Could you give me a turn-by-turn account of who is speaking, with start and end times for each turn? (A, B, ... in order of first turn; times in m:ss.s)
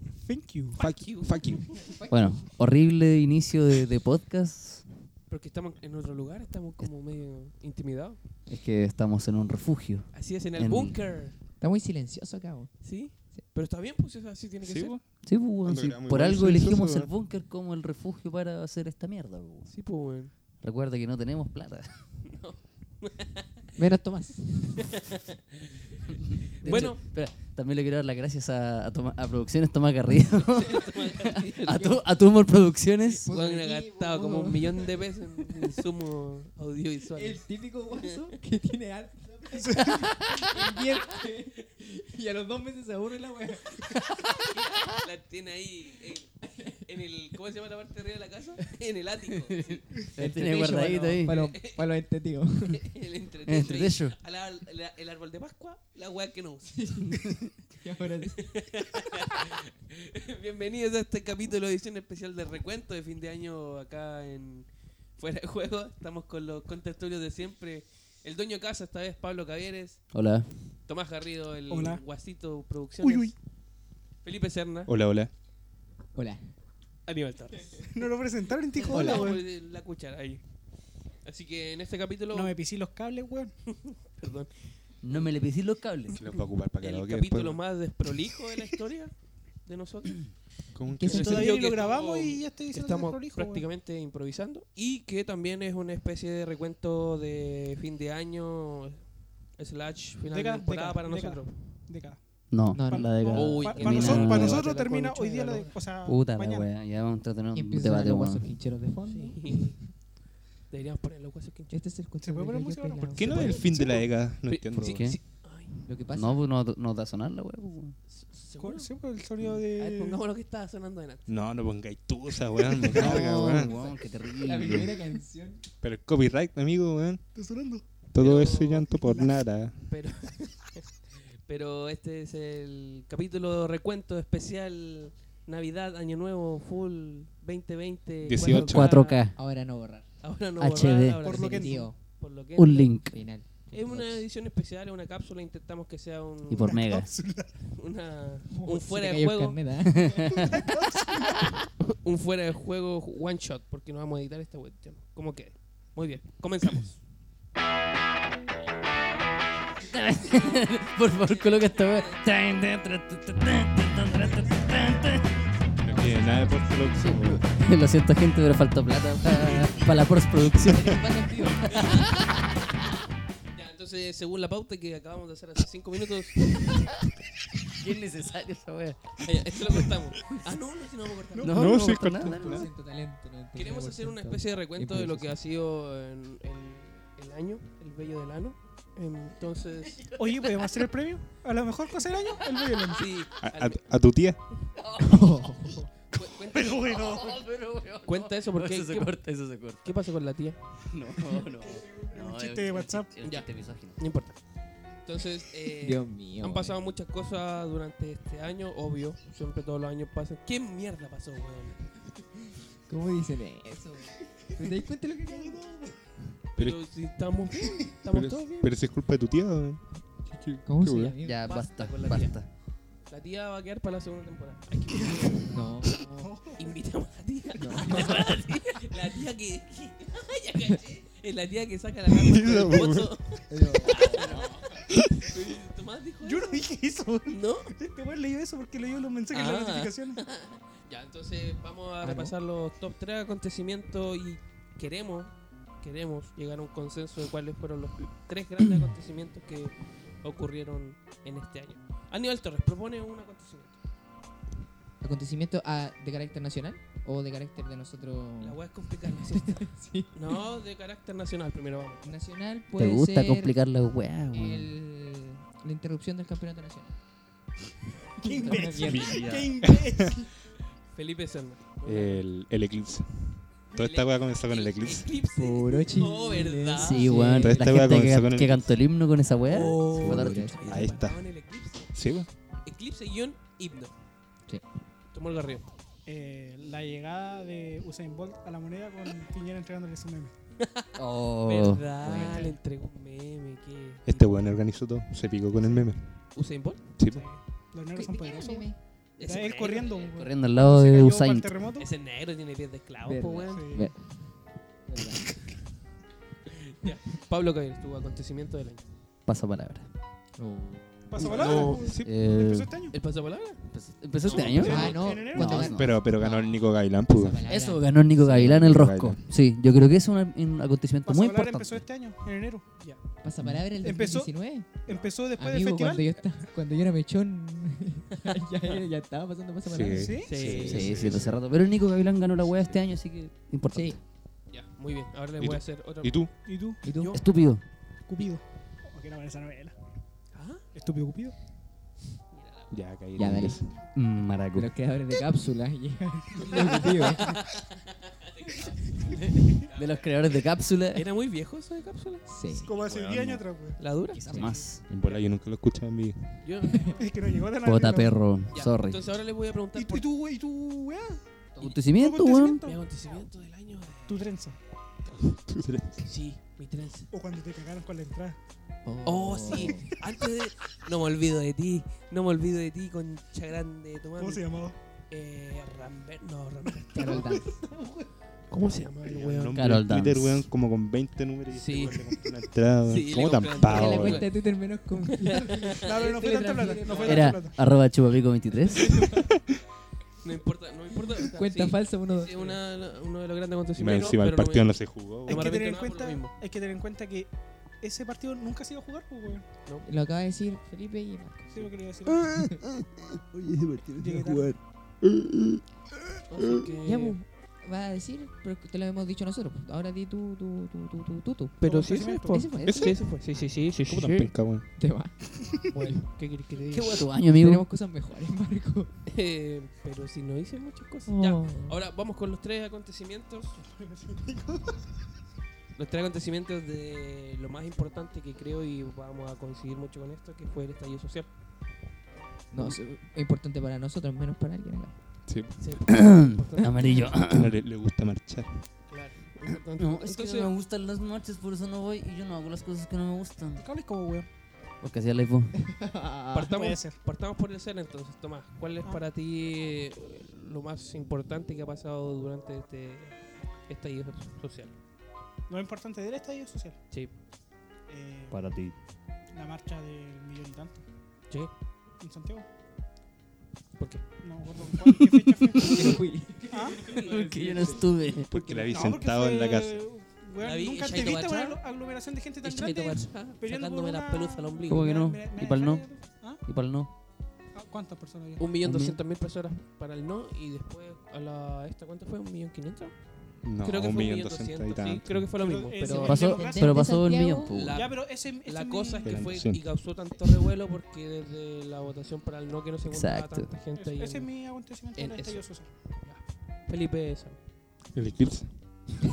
0:00.2-0:00.8 A
0:00.8-0:01.9 B
0:00.8-0:01.8 C
0:01.9-0:02.4 D
0:02.1-0:04.9 E
0:05.3-0:08.2 B
0:08.5-0:11.2 E
0:10.1-0:11.4 B
0:11.6-0:13.4 D
0:12.8-0:15.0 B
0:14.6-0:17.1 C
0:15.2-0:22.2 E
0:19.7-0:20.3 B
0:22.2-0:23.4 B
0:23.8-0:24.9 D
0:26.6-0:26.9 D
0:26.6-0:27.0 B
0:26.6-0:33.3 E
0:30.4-0:31.9 B
0:31.8-0:32.1 D
0:33.2-0:35.0 D
0:33.2-0:37.5 B
0:35.5-0:35.8 D
0:37.1-0:44.7 D
0:39.6-0:40.1 A
0:44.8-0:51.9 B
0:46.4-0:46.8 D
0:49.5-0:51.6 E
0:50.2-0:52.8 D
0:52.7-0:56.9 B
0:53.5-0:54.2 E
0:56.7-0:58.6 D
0:57.0-0:57.5 E
0:58.3-1:10.1 B
1:10.1-1:10.8 E
1:10.8-1:13.4 B
1:11.7-1:12.0 A
1:13.0-1:13.3 A
1:14.2-1:14.9 B
1:14.9-1:15.3 C
1:16.1-1:16.4 D
1:17.1-1:17.9 B
1:17.9-1:19.4 A
1:18.8-1:20.4 B
1:18.8-1:19.3 D
1:21.2-1:22.6 B
1:22.3-1:23.5 A
1:23.7-1:25.3 B
1:25.0-1:26.2 E
1:26.2-1:27.6 C
1:26.3-1:29.1 B
1:29.6-1:30.4 B
1:30.7-1:31.7 C
1:30.9-1:31.5 D
1:31.1-1:33.6 A
1:31.1-1:41.9 B
1:40.3-1:46.7 A
1:42.5-1:44.7 E
1:42.7-1:43.1 D
1:43.3-1:45.7 B
1:46.0-1:48.6 E
1:47.5-1:49.7 D
1:49.1-1:50.0 B
1:50.7-1:51.8 B
1:51.7-1:53.6 D
1:52.2-1:54.0 A
1:53.2-1:55.1 C
1:54.4-1:55.9 B
1:54.9-1:55.2 E
1:55.8-1:56.4 D
1:56.1-1:58.0 E
1:58.1-1:59.0 B
1:58.6-2:00.2 A
1:59.8-2:01.3 B
2:01.3-2:03.8 C
2:02.9-2:05.0 E
2:03.7-2:05.6 D
2:05.8-2:07.2 C
2:07.4-2:07.8 A
2:08.1-2:09.9 C
2:08.2-2:10.8 B
2:11.5-2:19.3 B
2:18.2-2:19.0 C
2:18.4-2:19.4 E
2:18.9-2:20.1 D
2:20.2-2:26.8 B
2:20.6-2:21.3 E
2:21.2-2:21.9 A
2:21.3-2:22.0 D
2:22.5-2:23.5 E
2:23.1-2:24.3 D
2:26.5-2:27.1 E
2:26.6-2:27.7 A
2:27.7-2:29.6 B
2:28.5-2:28.8 A
2:28.8-2:30.4 D
2:29.9-2:30.6 E
2:30.4-2:31.5 A
2:31.8-2:37.0 B
2:39.9-2:45.4 E
2:41.1-2:42.2 B
2:45.8-2:47.4 C
2:45.9-2:46.5 D
2:45.9-2:46.5 B
2:46.9-2:52.1 E
2:50.7-2:52.1 D
2:51.7-2:52.4 B
2:53.5-2:56.7 B
2:57.7-2:59.8 E
2:59.2-3:01.7 B
3:01.3-3:02.1 A
3:01.4-3:02.7 E
3:01.5-3:02.7 C
3:02.4-3:05.3 D
3:03.6-3:10.0 B
3:10.0-3:10.4 E
3:10.2-3:13.1 A
3:12.9-3:13.9 B
3:13.4-3:14.5 C
3:14.8-3:15.5 E
3:15.0-3:15.8 D
3:16.1-3:17.2 B
3:16.5-3:17.4 A
3:16.7-3:19.9 E
3:18.0-3:20.6 B
3:20.9-3:24.0 E
3:21.6-3:23.1 A
3:23.2-3:32.0 B
3:25.8-3:26.8 D
3:32.9-3:35.6 D
3:35.3-3:36.0 A
3:36.6-3:38.7 B
3:36.6-3:36.8 C
3:38.1-3:41.2 C
3:40.6-3:41.5 D
3:41.2-3:42.5 E
3:41.4-3:42.4 B
3:43.1-3:45.5 B
3:45.5-3:46.4 D
3:46.2-3:46.7 A
3:46.6-3:56.7 B
3:47.6-3:48.1 A
3:47.6-3:48.4 D
3:48.1-3:48.4 E
3:52.1-3:53.2 C
3:53.5-3:54.3 D
3:54.9-3:55.3 C
3:56.2-4:00.2 A
3:57.3-3:57.8 B
3:59.3-4:13.8 B
4:02.0-4:02.4 D
4:15.0-4:18.6 D
4:18.4-4:22.1 B
4:19.2-4:20.2 D
4:22.0-4:23.6 D
4:22.8-4:24.7 E
4:24.3-4:27.0 D
4:28.2-4:29.3 D
4:28.2-4:30.3 A
4:28.8-4:30.2 C
4:30.9-4:32.2 B
4:31.8-4:35.1 C
4:33.7-4:37.2 B
4:35.3-4:37.6 D
4:36.8-4:40.9 E
4:37.3-4:38.8 C
4:39.5-4:41.0 D
4:39.5-4:41.9 B
4:40.4-4:41.4 C
4:41.9-4:42.3 C
4:42.6-4:43.9 B
4:45.1-4:45.7 B
4:46.1-4:50.3 A
4:50.6-4:54.6 B
4:51.0-4:52.4 E
4:52.0-4:52.5 D
4:54.1-4:56.3 C
4:56.4-4:56.9 B
4:57.0-4:57.3 C
4:57.0-5:01.9 A
4:57.9-4:58.8 D
4:59.2-5:00.0 B
5:00.0-5:01.6 E
5:01.8-5:03.7 B
5:03.0-5:04.1 D
5:03.5-5:03.9 A
5:03.7-5:04.1 E
5:04.9-5:05.4 D
5:06.8-5:08.9 B
5:09.3-5:09.9 E
5:10.4-5:11.3 D
5:11.1-5:13.0 A
5:11.2-5:12.2 C
5:11.2-5:12.9 E
5:11.2-5:11.9 B
5:12.9-5:15.0 B
5:13.6-5:16.2 E
5:14.4-5:15.7 A
5:14.6-5:16.1 D
5:15.7-5:17.4 C
5:17.0-5:18.4 D
5:17.4-5:21.9 E
5:18.2-5:19.3 C
5:21.0-5:22.7 A
5:23.2-5:30.6 D
5:23.8-5:26.4 A
5:28.1-5:28.8 B
5:29.6-5:31.4 C
5:29.9-5:30.6 A
5:30.2-5:31.3 B
5:30.4-5:34.0 E
5:33.7-5:34.0 D
5:34.5-5:36.3 B
5:35.4-5:36.3 C
5:36.5-5:36.8 A
5:36.8-5:37.2 D
5:37.0-5:37.3 B
5:37.1-5:37.8 E
5:38.1-5:39.8 A
5:40.3-5:40.6 B
5:40.7-5:41.4 A
5:42.3-5:42.9 B
5:42.7-5:43.8 C
5:43.2-5:43.6 D
5:44.0-5:44.8 E
5:44.5-5:47.3 D
5:46.4-5:50.3 B
5:49.1-5:51.1 E
5:50.9-5:52.8 B
5:52.3-5:52.7 D
5:52.6-5:53.8 A
5:52.8-5:53.4 C
5:53.8-5:55.3 B
5:54.1-5:54.9 E
5:54.9-5:56.5 C
5:56.4-5:57.1 B
5:57.0-5:58.3 A
5:57.6-5:59.1 E
5:58.5-6:00.1 B
5:59.8-6:01.2 A
6:01.6-6:02.6 E
6:01.9-6:02.8 A
6:02.6-6:04.3 B
6:04.1-6:04.6 A
6:05.3-6:06.0 C
6:06.0-6:07.1 B
6:07.1-6:08.4 A
6:08.8-6:09.9 D
6:09.0-6:17.4 B
6:14.2-6:14.8 A
6:17.0-6:17.6 D
6:17.0-6:18.1 A
6:18.5-6:19.6 B
6:19.0-6:24.3 C
6:19.5-6:20.5 E
6:21.5-6:22.1 B
6:22.9-6:24.4 B
6:23.6-6:27.5 D
6:25.8-6:27.6 A
6:26.1-6:27.4 B
6:27.1-6:29.0 E
6:28.8-6:29.3 C
6:30.2-6:36.4 B
6:31.3-6:32.6 D
6:33.8-6:35.5 C
6:35.3-6:39.4 A
6:39.8-6:41.7 D
6:41.5-6:42.3 A
6:42.1-6:44.6 E
6:44.0-6:44.6 A
6:46.3-6:47.2 B
6:46.8-6:53.0 D
6:51.6-6:53.8 B
6:51.6-6:52.5 A
6:52.6-6:53.0 C
6:53.7-6:56.0 D
6:53.9-6:54.7 C
6:55.7-6:57.1 B
6:56.7-6:57.7 E
6:57.3-6:58.9 D
6:59.1-7:03.6 B
7:01.1-7:01.8 D
7:03.6-7:04.8 A
7:05.8-7:11.3 B
7:12.5-7:15.0 D
7:15.3-7:15.7 C
7:15.6-7:17.2 B
7:15.9-7:17.5 E
7:17.3-7:18.6 C
7:18.9-7:20.5 B
7:19.8-7:23.7 E
7:23.6-7:24.3 A
7:24.8-7:25.8 E
7:25.6-7:26.5 D
7:26.3-7:33.2 B
7:26.4-7:27.0 A
7:33.7-7:34.8 B
7:35.5-7:36.8 A
7:37.9-7:38.5 A
7:38.3-7:38.8 E
7:39.3-7:40.8 A
7:42.0-7:42.5 A
7:43.8-7:44.2 B
7:44.2-7:46.0 A
7:45.6-7:47.9 D
7:46.5-7:46.9 A
7:46.8-7:47.8 B
7:46.8-7:48.4 E
7:48.3-7:49.9 C
7:48.4-7:56.4 A
7:50.4-7:51.6 B
7:52.4-7:54.9 B
7:54.7-7:57.0 E
7:57.5-7:58.5 A
7:58.4-8:03.0 B
7:58.6-7:59.0 E
8:03.4-8:05.3 C
8:03.5-8:06.2 B
8:05.4-8:07.0 A
8:05.8-8:07.6 D
8:06.0-8:07.8 E
8:07.5-8:14.3 B
8:07.7-8:09.1 A
8:09.0-8:09.7 C
8:12.9-8:13.6 E
8:13.7-8:15.7 A
8:15.0-8:15.5 B
8:16.0-8:17.4 B
8:17.9-8:18.9 C